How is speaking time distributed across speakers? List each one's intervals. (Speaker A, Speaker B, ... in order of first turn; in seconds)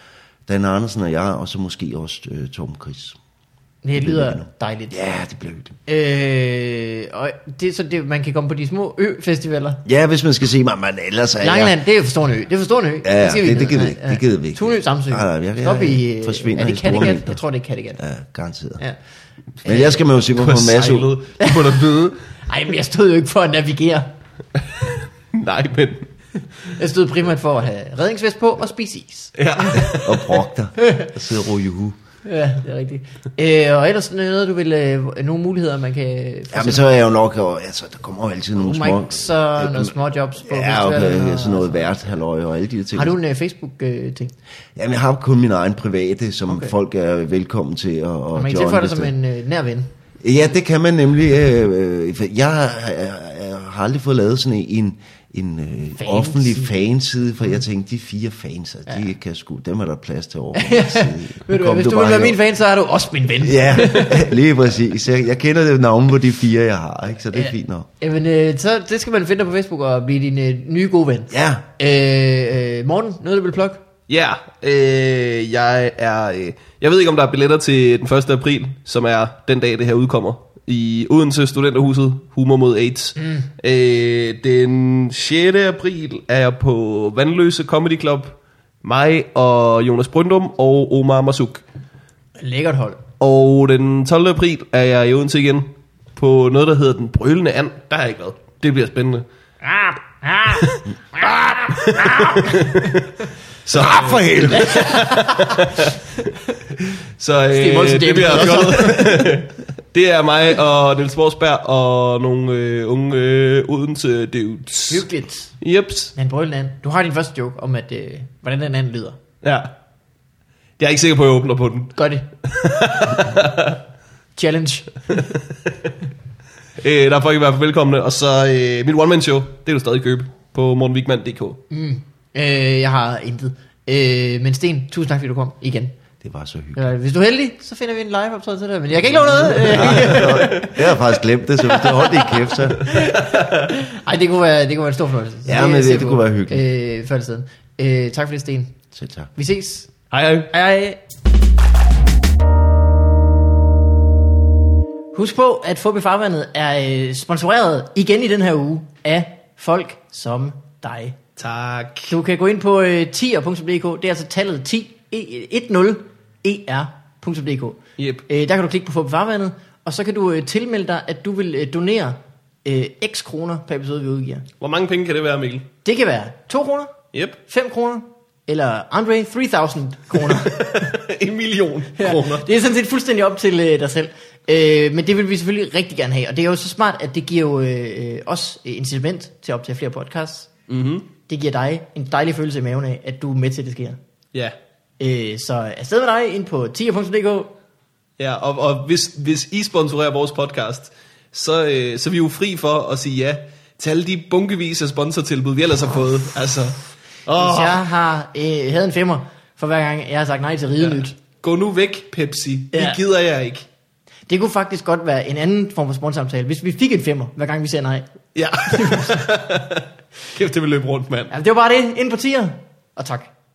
Speaker A: 0.5-3.2, 4.0-5.8, 9.8-11.7, 13.0-17.4, 18.0-18.8, 19.6-21.1, 29.7-32.0, 36.5-43.1, 44.7-49.1, 50.2-62.4, 63.4-67.9, 71.3-71.6, 103.7-105.2, 108.6-108.9, 136.2-136.9, 139.1-142.9, 145.4-146.6, 148.9-149.3
Speaker B: 3.8-5.1, 5.8-9.8, 11.4-18.0, 19.6-20.0, 21.4-21.9, 22.5-24.1, 26.6-29.3, 30.8-31.1, 32.2-36.9, 38.6-41.9, 42.9-44.3, 48.3-49.9, 56.0-56.8, 60.5-64.4, 67.3-73.8, 92.4-93.0, 99.6-102.9, 104.5-105.6, 107.5-109.3, 114.9-115.5, 116.1-119.2, 122.0-122.3, 124.3-125.2, 131.7-135.9, 136.7-141.0, 141.7-148.8, 149.3-151.0, 155.1-161.2, 162.1-174.4, 175.8-180.9, 182.0-190.5, 191.3-194.0, 195.0-197.5, 207.3-211.1, 212.7-213.0, 214.3-219.3, 221.3-223.3
Speaker C: 20.4-22.2, 24.8-26.1, 29.4-30.4, 74.1-91.6, 93.2-99.2, 100.5-100.8, 101.7-103.1, 103.6-106.2, 107.2-115.1, 115.6-116.1, 119.4-119.7, 120.8-123.8, 126.8-131.6, 139.7-140.7, 150.1-150.5, 161.4-162.1, 168.0-168.2, 174.6-175.7, 177.1-177.4, 180.2-182.4, 190.7-191.1, 198.2-207.8, 210.8-213.7, 218.3-221.3